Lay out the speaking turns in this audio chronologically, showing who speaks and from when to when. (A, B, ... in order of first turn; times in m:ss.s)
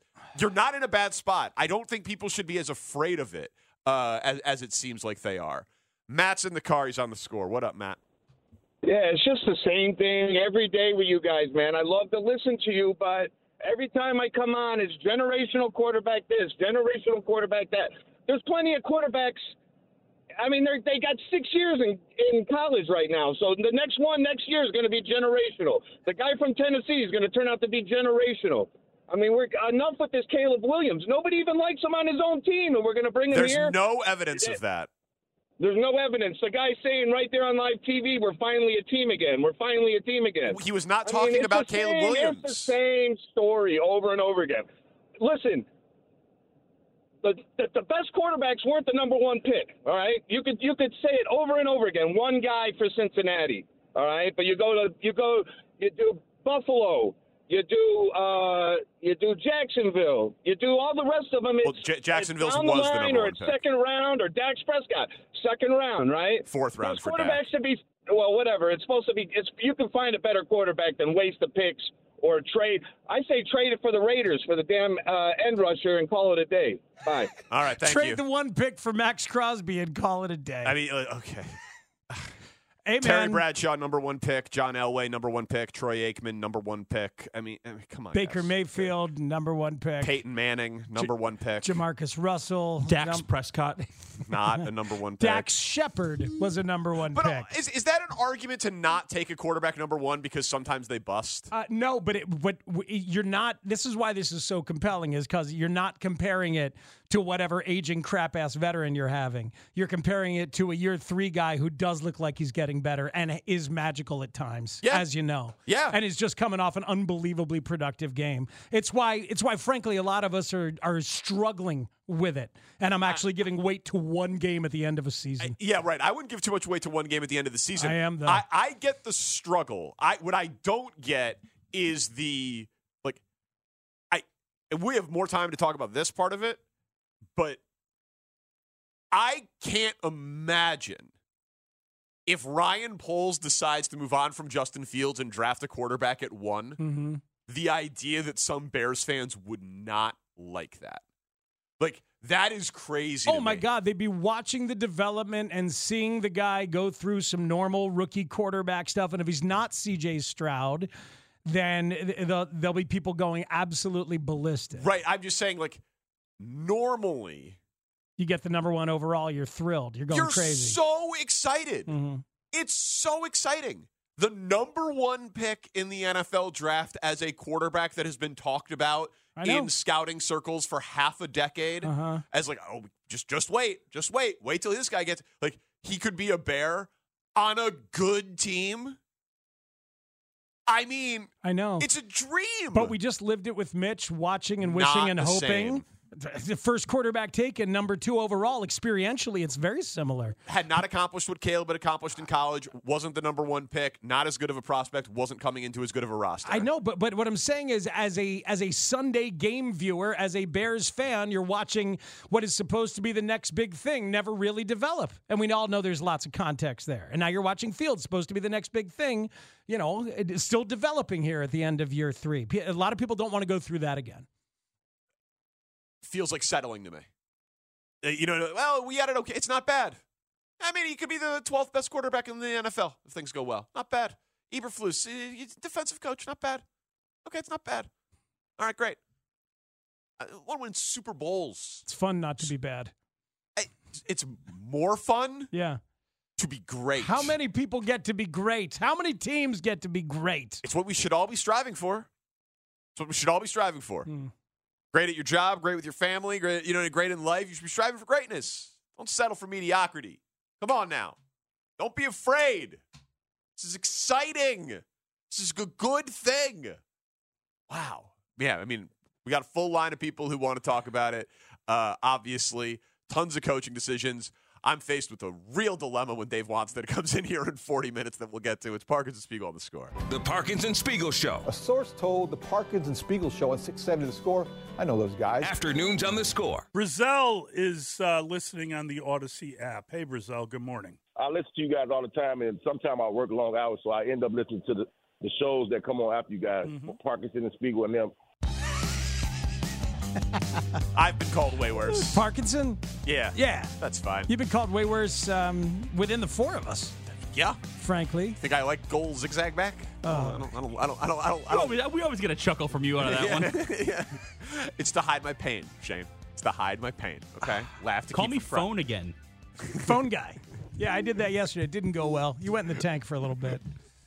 0:00.3-0:08.0 A
0:08.8-0:19.5 B
0:20.4-0:33.8 B
0:33.3-0:34.9 A
0:35.6-0:44.7 B
0:40.5-0:42.8 A
0:45.2-0:45.7 B
0:47.2-1:17.3 B
1:01.6-1:03.6 A
1:06.4-1:07.5 A
1:17.5-1:18.2 A
1:17.8-1:20.8 C
1:20.6-1:21.6 A
1:22.8-1:23.4 C
1:23.0-1:28.9 A
1:28.1-1:30.2 C
1:30.0-1:31.8 A
1:31.0-1:33.2 C
1:32.8-1:33.9 D
1:34.3-1:35.5 A
1:35.2-1:37.5 C
1:37.1-1:41.5 A
1:41.5-2:05.6 C
1:55.6-1:56.0 A
2:05.4-2:13.2 A
2:07.8-2:08.4 C
2:14.1-2:16.6 A
2:19.1-2:21.1 A
2:22.3-2:26.8 A
2:26.8-2:27.2 C
2:27.5-2:31.0 A
2:31.8-2:33.6 A
2:33.3-2:40.9 C
2:41.4-2:44.8 C
2:44.8-2:45.8 A
2:46.4-2:47.6 A
2:48.2-2:50.8 C
2:50.1-2:51.9 A
2:51.9-2:52.2 C
2:52.5-3:09.0 A
2:59.3-2:59.7 C
3:01.8-3:02.2 C
3:10.7-3:12.9 A
3:11.4-3:11.9 C
3:12.7-3:20.4 C
3:14.6-3:15.8 A
3:20.4-3:26.7 A
3:26.4-3:44.3 C
3:46.0-3:47.1 A
3:48.0-3:50.0 A
3:50.6-3:56.6 A
3:57.2-3:57.9 A
3:58.6-3:59.0 A
4:00.2-4:01.8 A
4:01.8-4:02.9 C
4:03.6-4:05.5 A
4:05.5-4:05.8 C
4:06.4-4:07.3 A
4:07.0-4:10.6 C
4:10.6-4:12.1 A
4:13.0-4:14.1 A
4:14.0-4:14.3 C
4:14.9-4:21.2 A
4:21.8-4:22.8 A
4:23.6-4:26.8 A
4:27.7-4:39.9 A
4:40.1-4:41.4 E
4:41.4-4:45.4 F
4:45.4-4:46.6 E
4:46.7-4:51.0 G
4:51.2-4:58.1 H
5:00.9-5:02.2 A
5:01.9-5:03.7 C
5:03.0-5:04.3 A
5:04.3-5:07.0 C
5:07.2-5:07.6 A
5:07.8-5:08.4 C
5:08.4-5:11.8 A
5:10.0-5:10.4 C
5:11.5-5:13.6 D
5:13.0-5:18.7 A
5:18.1-5:19.2 D
5:19.8-5:23.6 C